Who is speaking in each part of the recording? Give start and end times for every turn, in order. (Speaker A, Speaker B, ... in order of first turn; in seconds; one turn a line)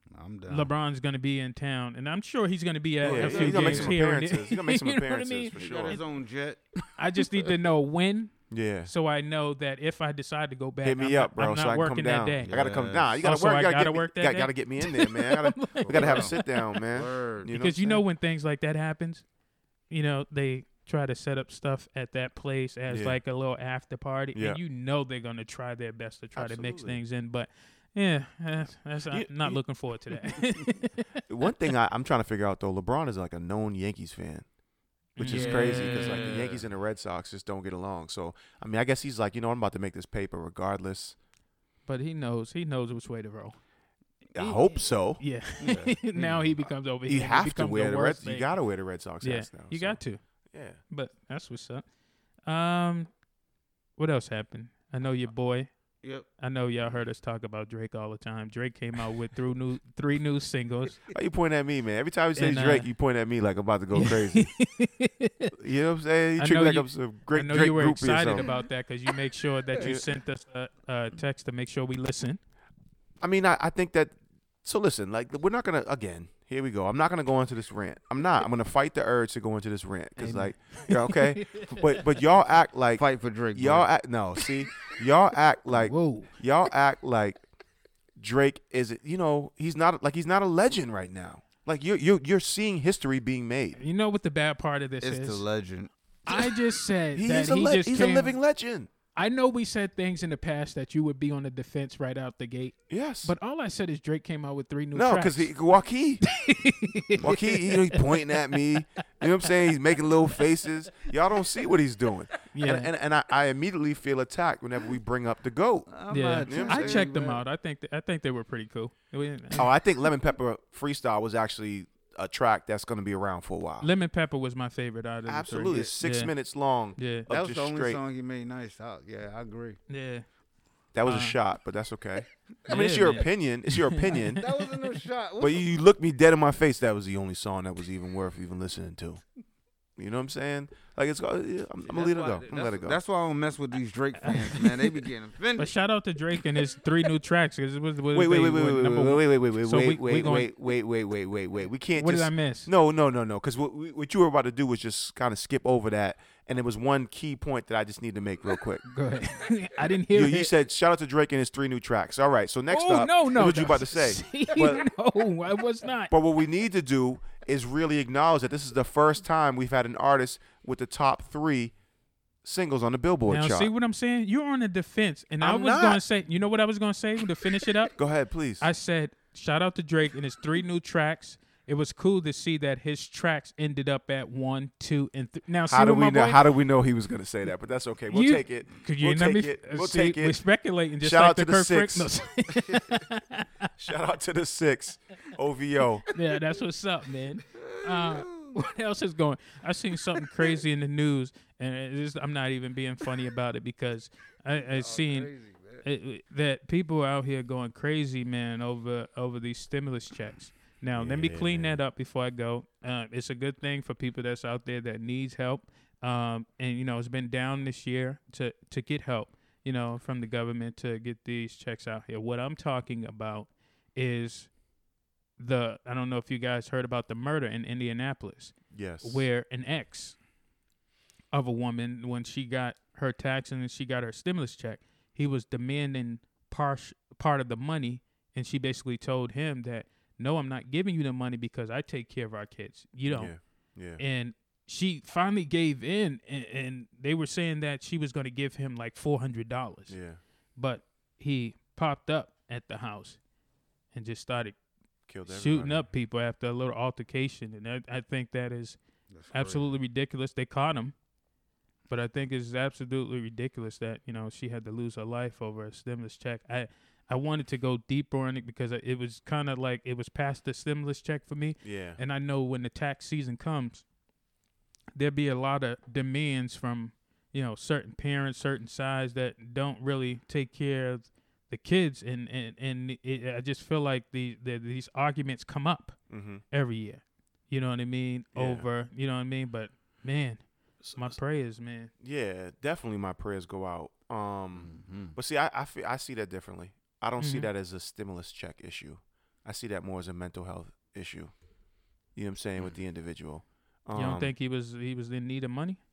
Speaker A: 0.1-0.7
Speaker B: 0.5-6.0
Speaker C: 3.0-6.0
Speaker A: 3.0-4.0
Speaker A: 5.5-7.5
Speaker B: 7.0-8.3
Speaker C: 8.5-8.9
Speaker B: 8.9-12.5
Speaker C: 10.8-18.0
Speaker A: 12.4-13.2
Speaker B: 13.2-16.9
Speaker A: 15.8-16.4
Speaker A: 16.9-17.6
Speaker B: 17.5-19.2
Speaker B: 19.9-31.2
Speaker C: 22.9-23.2
Speaker C: 24.4-24.6
Speaker C: 26.4-27.0
Speaker C: 29.1-29.6
Speaker C: 31.3-34.5
Speaker C: 35.2-41.2
Speaker B: 35.2-36.4
Speaker A: 35.2-36.7
Speaker B: 41.9-43.6
Speaker C: 44.4-45.2
Speaker B: 44.4-44.7
Speaker B: 45.2-48.5
Speaker A: 45.6-46.6
Speaker C: 47.1-50.0
Speaker B: 49.2-50.2
Speaker C: 50.5-50.8
Speaker B: 50.9-51.8
Speaker B: 52.5-53.1
Speaker B: 54.0-55.7
Speaker B: 56.4-61.0
Speaker C: 61.1-64.5
Speaker B: 62.4-62.9
Speaker B: 63.9-65.5
Speaker C: 65.5-68.5
Speaker B: 66.4-72.4
Speaker A: 68.4-68.7
Speaker C: 69.8-70.1
Speaker C: 73.2-87.4
Speaker B: 80.2-82.0
Speaker A: 83.0-83.9
Speaker B: 85.7-86.3
Speaker C: 88.2-93.8
Speaker B: 93.8-95.4
Speaker A: 95.0-95.9
Speaker B: 96.3-98.3
Speaker C: 97.1-98.9
Speaker B: 99.1-105.5
Speaker C: 102.9-103.3
Speaker C: 104.9-106.2
Speaker B: 106.2-108.6
Speaker C: 107.2-115.9
Speaker B: 112.5-112.9
Speaker A: 115.9-117.4
Speaker B: 116.1-119.7
Speaker C: 116.5-117.1
Speaker C: 119.5-123.9
Speaker B: 123.8-126.3
Speaker C: 125.3-128.0
Speaker B: 127.0-127.3
Speaker A: 127.3-129.8
Speaker B: 129.9-130.2
Speaker C: 130.9-134.4
Speaker B: 131.1-131.4
Speaker B: 132.7-134.4
Speaker A: 134.3-135.7
Speaker C: 135.4-139.2
Speaker C: 140.0-143.0
Speaker A: 141.8-145.7
Speaker B: 144.2-144.9
Speaker B: 145.6-150.5
Speaker C: 148.1-158.8
Speaker B: 152.0-152.7
Speaker B: 158.8-160.5
Speaker C: 160.1-164.8
Speaker B: 162.7-166.1
Speaker C: 166.1-171.7
Speaker C: 172.4-173.7
Speaker B: 173.3-177.9
Speaker C: 175.4-176.0
Speaker C: 178.0-178.7
Speaker B: 178.6-186.4
Speaker C: 185.7-190.4
Speaker B: 188.1-193.7
Speaker C: 191.0-192.1
Speaker C: 193.8-196.1
Speaker B: 196.1-205.3
Speaker A: 197.5-198.6
Speaker A: 200.2-200.6
Speaker A: 204.7-205.9
Speaker B: 205.8-224.5
Speaker C: 210.9-211.8
Speaker B: 225.4-230.2
Speaker C: 228.7-229.3
Speaker B: 231.3-243.3
Speaker C: 243.1-244.0
Speaker B: 244.0-250.0
Speaker C: 249.9-250.2
Speaker B: 250.6-253.2
Speaker B: 253.9-254.6
Speaker C: 255.1-255.9
Speaker B: 255.3-258.8
Speaker A: 259.1-259.8
Speaker B: 259.3-260.9
Speaker B: 261.9-273.9
Speaker C: 271.6-272.0
Speaker B: 274.9-286.0
Speaker C: 286.1-286.4
Speaker B: 286.5-291.9
Speaker C: 288.4-288.6
Speaker C: 290.8-291.2
Speaker C: 292.0-301.3
Speaker A: 294.6-295.1
Speaker B: 297.2-297.5
Speaker C: 302.2-304.3
Speaker B: 303.9-305.8